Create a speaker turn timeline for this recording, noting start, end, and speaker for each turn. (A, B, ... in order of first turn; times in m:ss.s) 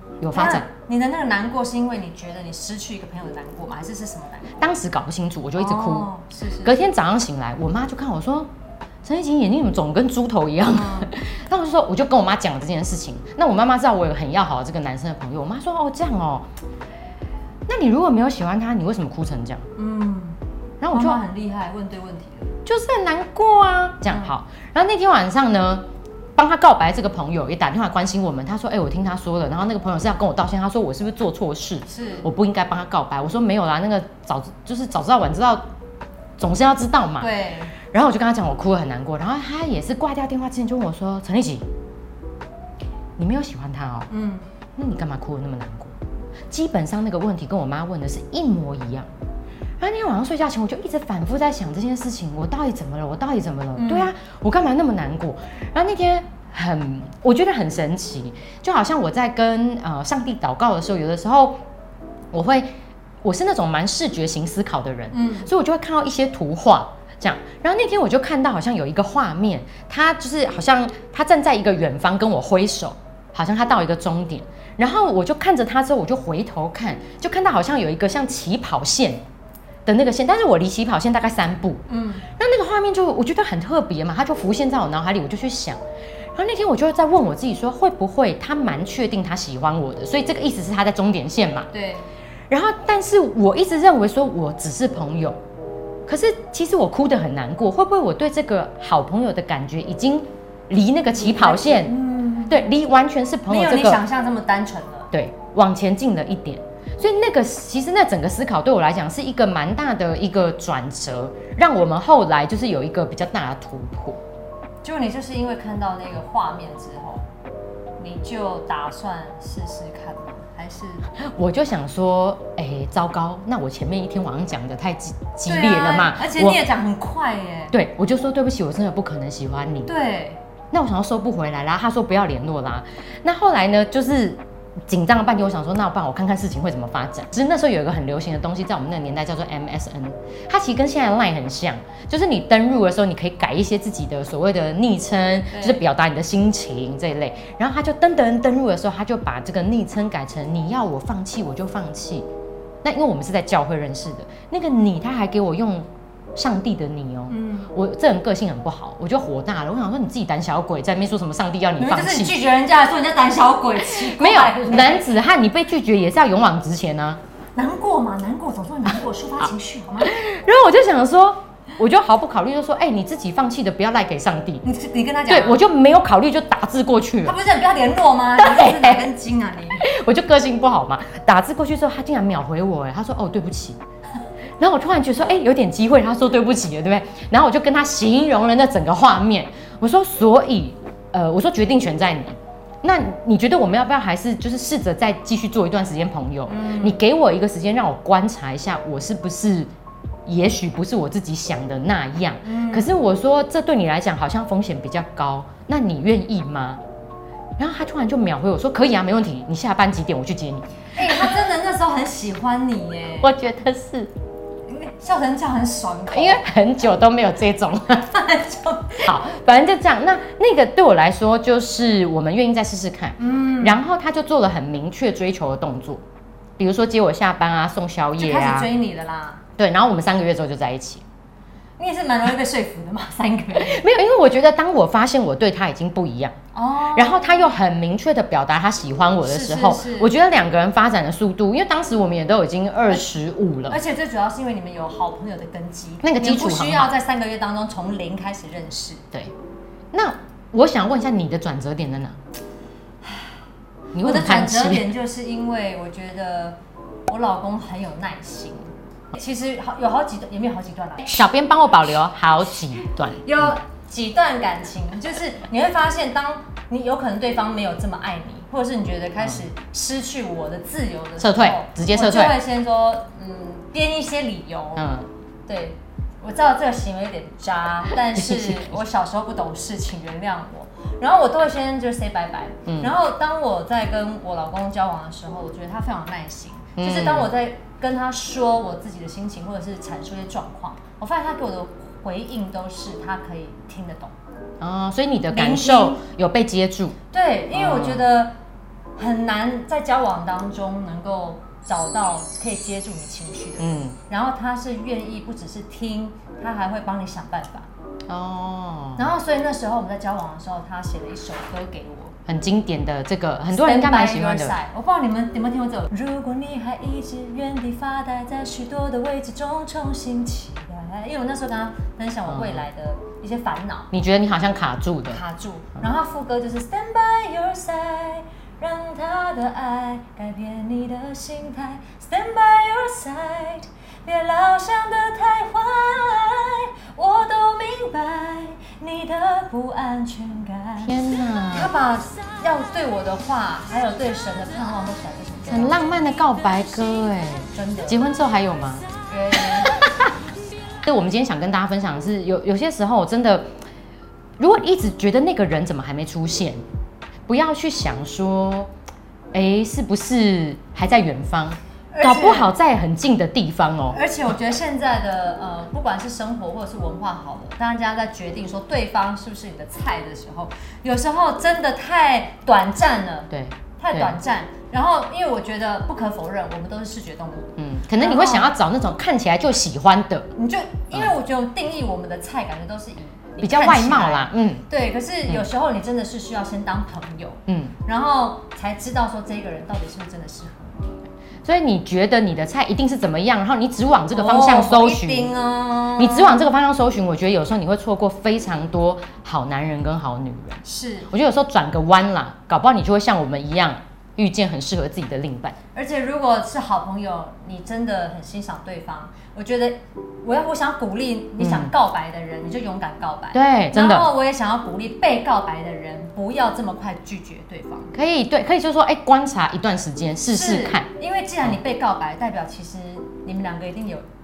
0:00.2-0:00.6 A
0:00.3-0:04.5 B
0:04.6-0:06.1 A
0:05.6-0:06.8 B
0:06.6-0:08.5 A
0:09.0-0:16.5 A
0:10.6-0:11.1 B
0:17.7-0:19.6 A
0:19.8-0:22.5 B
0:20.8-0:21.2 A
0:22.6-0:25.8 A
0:26.4-0:35.7 A
0:31.9-0:32.3 B
0:36.4-0:37.3 A
0:37.2-0:37.7 B
0:37.9-0:41.6 A
0:43.2-0:44.1 A
0:44.1-0:44.5 B
0:44.8-0:45.9 A
0:46.5-0:49.1 A
0:49.8-1:01.6 A
0:53.8-0:54.1 B
1:02.3-1:02.7 A
1:03.2-1:19.2 A
1:05.1-1:05.5 B
1:19.8-1:21.8 A
1:21.9-1:22.3 B
1:22.4-1:25.8 A
1:26.3-1:31.7 A
1:31.7-1:32.1 B
1:32.5-1:35.4 A
1:36.1-1:42.0 A
1:41.1-1:42.6 B
1:42.5-1:44.0 A
1:43.5-1:45.1 B
1:45.1-1:54.2 A
1:54.8-1:57.3 B
1:58.0-2:01.1 B
2:01.2-2:06.6 A
2:05.4-2:07.7 B
2:07.7-2:09.9 A
2:09.8-2:10.4 B
2:10.7-2:32.3 A
2:25.5-2:25.8 B
2:32.8-2:42.4 A
2:37.3-2:37.7 B
2:41.8-2:45.1 B
2:43.8-2:47.2 A
2:47.6-2:50.2 B
2:50.0-2:54.6 A
2:54.6-2:55.6 B
2:55.3-2:57.4 A
2:57.2-2:59.9 B
2:58.4-2:59.0 A
2:59.8-3:03.8 A
3:04.6-3:19.7 A
3:16.5-3:17.0 B
3:20.2-3:26.8 A
3:22.4-3:23.0 B
3:27.6-3:31.3 A
3:31.0-3:33.3 B
3:33.2-3:34.1 A
3:34.7-3:36.4 B
3:36.1-3:38.1 A
3:38.0-3:39.1 B
3:39.0-3:46.0 A
3:43.2-3:43.8 B
3:46.6-3:48.7 A
3:48.2-3:49.4 B
3:49.6-3:51.0 A
3:51.8-3:53.8 B
3:53.5-3:56.4 A
3:56.5-3:57.5 B
3:56.9-4:03.8 A
3:59.2-4:00.1 B
4:03.7-4:09.0 B
4:06.0-4:06.9 A
4:09.9-4:12.2 A
4:13.0-4:13.4 B
4:13.9-4:14.9 A
4:14.0-4:21.2 B
4:21.0-4:23.5 A
4:23.2-4:34.9 B
4:31.2-4:32.4 A
4:34.8-4:35.1 A
4:35.5-4:54.1 B
4:38.1-4:38.7 A
4:42.6-4:42.9 A
4:46.8-4:47.3 A
4:54.6-4:57.0 A
4:55.3-4:56.0 B
4:57.1-4:58.3 B
4:57.5-4:58.0 A
4:59.0-5:07.7 B
5:03.6-5:04.0 A
5:08.1-5:09.1 A
5:09.0-5:12.2 B
5:12.3-5:14.6 A
5:13.5-5:23.9 B
5:22.3-5:22.6 A
5:23.9-5:25.2 A
5:25.1-5:41.0 B
5:40.8-5:41.7 A
5:41.5-5:46.0 B
5:45.5-5:48.8 A
5:47.5-5:48.0 B
5:49.1-5:49.7 B
5:49.6-5:50.1 A
5:50.8-5:53.5 A
5:54.4-5:56.6 A
5:57.3-5:58.7 A
5:59.3-6:04.0 A
6:01.9-6:02.5 B
6:03.9-6:18.5 B
6:13.3-6:14.2 A
6:17.6-6:20.3 A
6:20.4-6:30.9 B
6:23.4-6:24.6 A
6:27.5-6:27.7 A
6:31.4-6:35.3 A
6:34.1-6:36.4 B
6:36.0-6:45.6 A
6:40.6-6:41.1 B
6:45.7-6:57.9 B
6:51.4-6:51.7 A
6:53.3-6:54.1 A
6:57.9-7:00.9 A
7:00.2-7:04.0 B